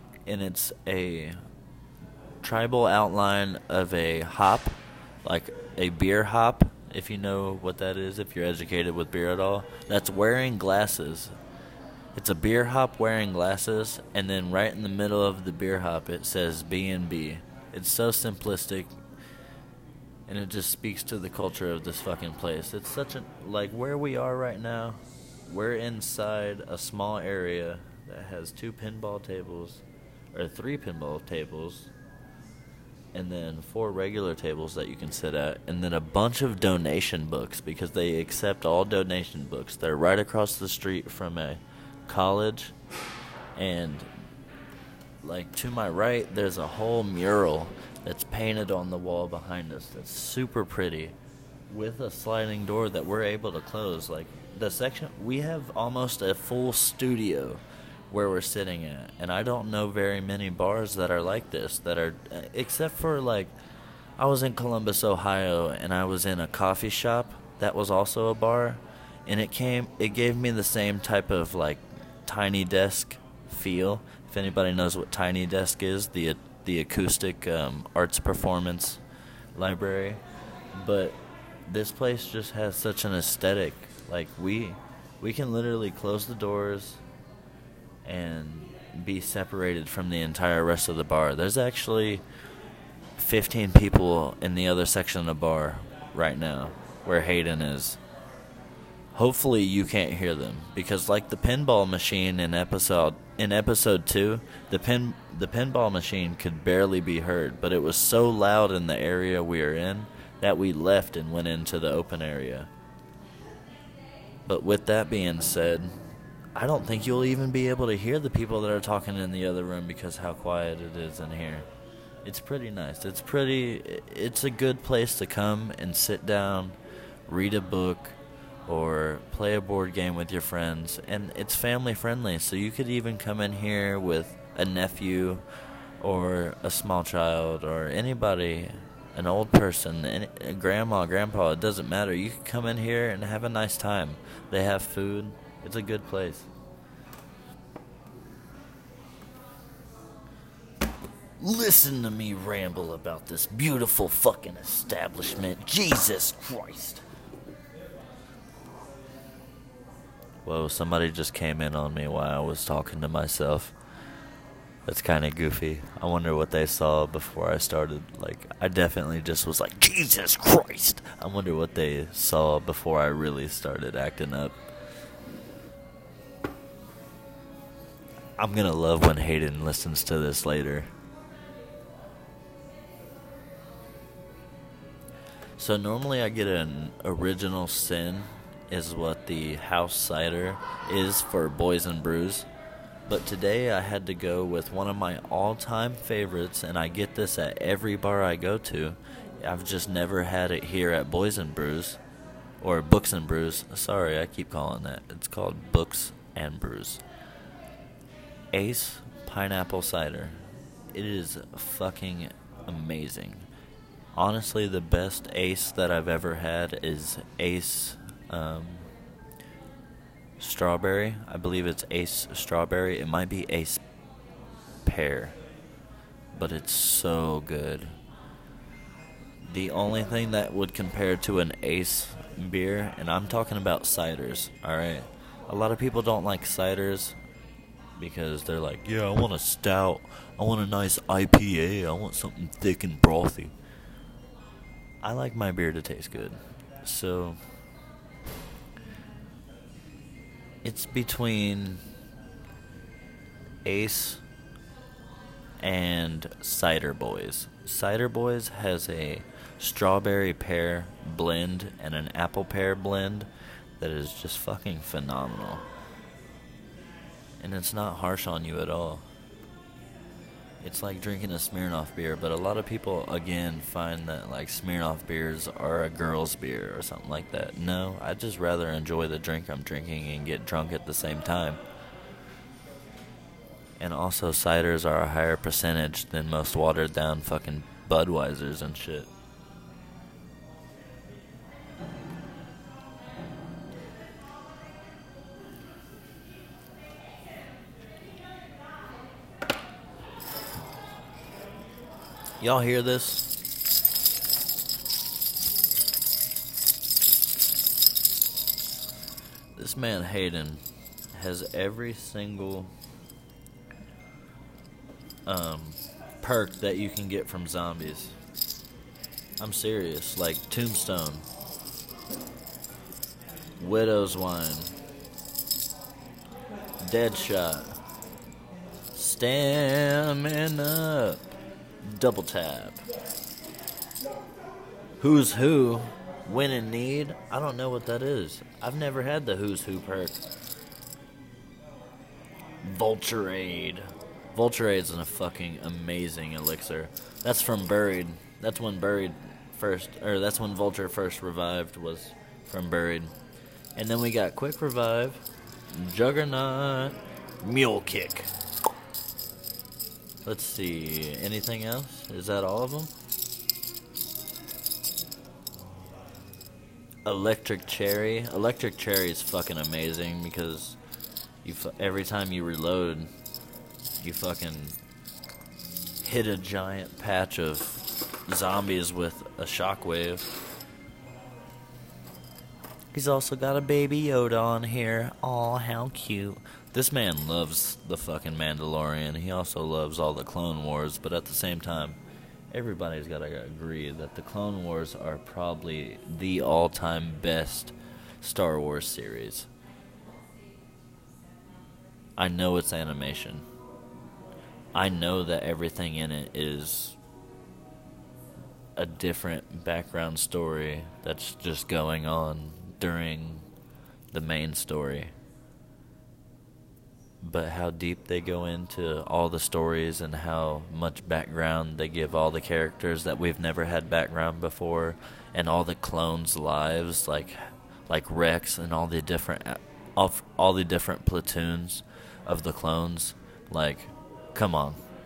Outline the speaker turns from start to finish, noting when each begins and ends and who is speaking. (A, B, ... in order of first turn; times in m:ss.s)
0:00.3-0:01.4 A
0:02.4-0:11.3 A
0:12.2-0:18.9 A
0:20.3-0:31.9 A
0:33.1-0:42.7 A
0:43.6-0:44.1 A
0:45.2-0:51.2 A
0:51.7-1:03.5 A
1:04.2-1:19.0 A
1:19.6-1:20.2 A
1:20.7-1:27.0 A
1:28.0-1:32.2 A
1:33.2-1:38.0 A
1:39.1-1:52.7 A
1:54.5-1:55.9 A
1:56.6-2:01.7 A
2:02.2-2:06.8 A
2:07.3-2:15.4 A
2:16.0-2:26.5 A
2:31.4-2:37.0 A
2:40.4-2:43.8 A
2:44.8-2:54.6 A
2:58.4-3:00.9 A
3:05.6-3:12.5 A
3:13.1-3:22.0 A
3:22.6-3:27.0 A
3:28.5-3:30.4 A
3:30.9-3:33.4 A
3:34.2-3:38.9 A
3:40.4-3:43.8 A
3:44.8-3:45.4 A
3:46.3-3:47.9 A
3:49.4-3:57.2 A
3:58.0-4:03.5 A
4:05.0-4:07.4 A
4:10.6-4:11.8 A
4:13.6-4:14.2 A
4:15.6-4:23.3 A
4:23.8-4:25.6 A
4:27.4-4:29.0 A
4:30.6-4:41.6 A
4:43.8-4:49.1 A
5:02.4-5:03.3 A
5:09.6-5:10.6 A
5:11.1-5:12.7 A
5:15.3-5:18.2 A
5:19.4-5:21.2 A
5:23.6-5:24.7 A
5:26.8-5:27.8 A
5:28.9-5:31.3 A
5:31.8-5:32.8 A
5:35.0-5:40.2 A
5:42.6-5:53.1 A
5:53.8-5:58.3 A
6:00.2-6:02.9 A
6:07.0-6:10.8 A
6:11.4-6:13.1 A
6:14.0-6:14.8 A
6:16.0-6:20.3 A
6:22.9-6:32.0 A
6:32.5-6:39.5 A
6:42.2-6:43.5 A
6:44.7-6:47.0 A
6:48.8-6:53.5 A
6:54.1-6:55.1 A
6:57.2-7:14.8 A